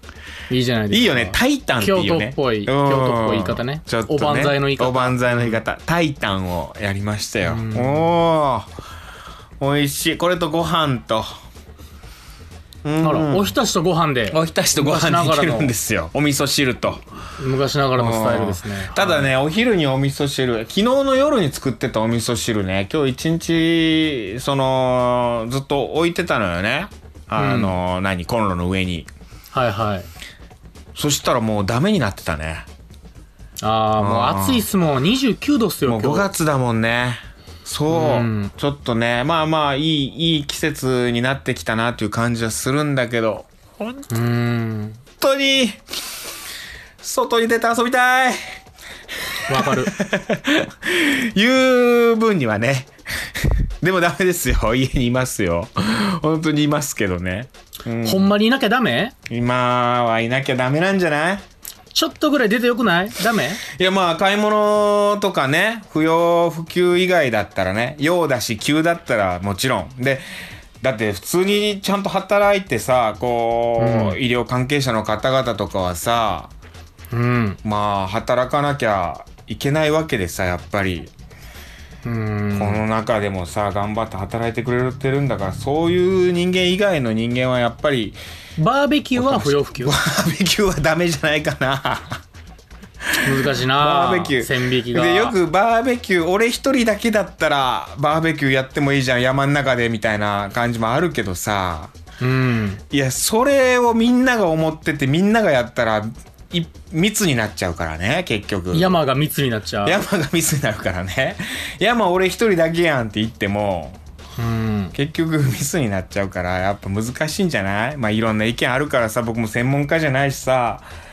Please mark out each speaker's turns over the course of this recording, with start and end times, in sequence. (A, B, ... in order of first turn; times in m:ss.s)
0:00.5-0:05.6 A
0:00.9-0:08.7 B
0:07.5-0:08.1 A
0:09.6-0:11.4 B
0:12.8-0:13.5 B
0:13.0-0:15.7 A
0:14.3-0:17.0 B
0:17.4-0:19.3 A
0:18.0-0:29.1 B
0:27.4-0:27.8 A
0:29.5-0:30.1 A
0:31.0-0:32.7 B
0:33.6-0:36.3 A
0:34.0-0:34.7 B
0:35.9-0:44.0 B
0:37.9-0:38.5 A
0:44.1-0:45.0 A
0:45.2-0:45.8 B
0:47.0-0:48.4 B
0:49.5-0:49.9 A
0:49.5-0:58.3 B
0:58.0-0:59.2 A
0:59.3-1:01.4 B
1:01.9-1:03.6 A
1:03.7-1:10.2 B
1:10.8-1:16.5 B
1:13.8-1:14.2 A
1:17.1-1:17.6 A
1:17.6-1:21.1 B
1:22.0-1:22.8 A
1:22.6-1:28.2 B
1:28.6-1:30.0 A
1:29.2-1:32.2 B
1:33.1-1:41.9 B
1:33.2-1:35.4 A
1:42.2-1:42.8 A
1:42.9-1:49.0 B
1:48.7-1:50.0 A
1:49.8-1:54.0 B
1:54.4-1:54.9 A
1:54.9-2:00.9 B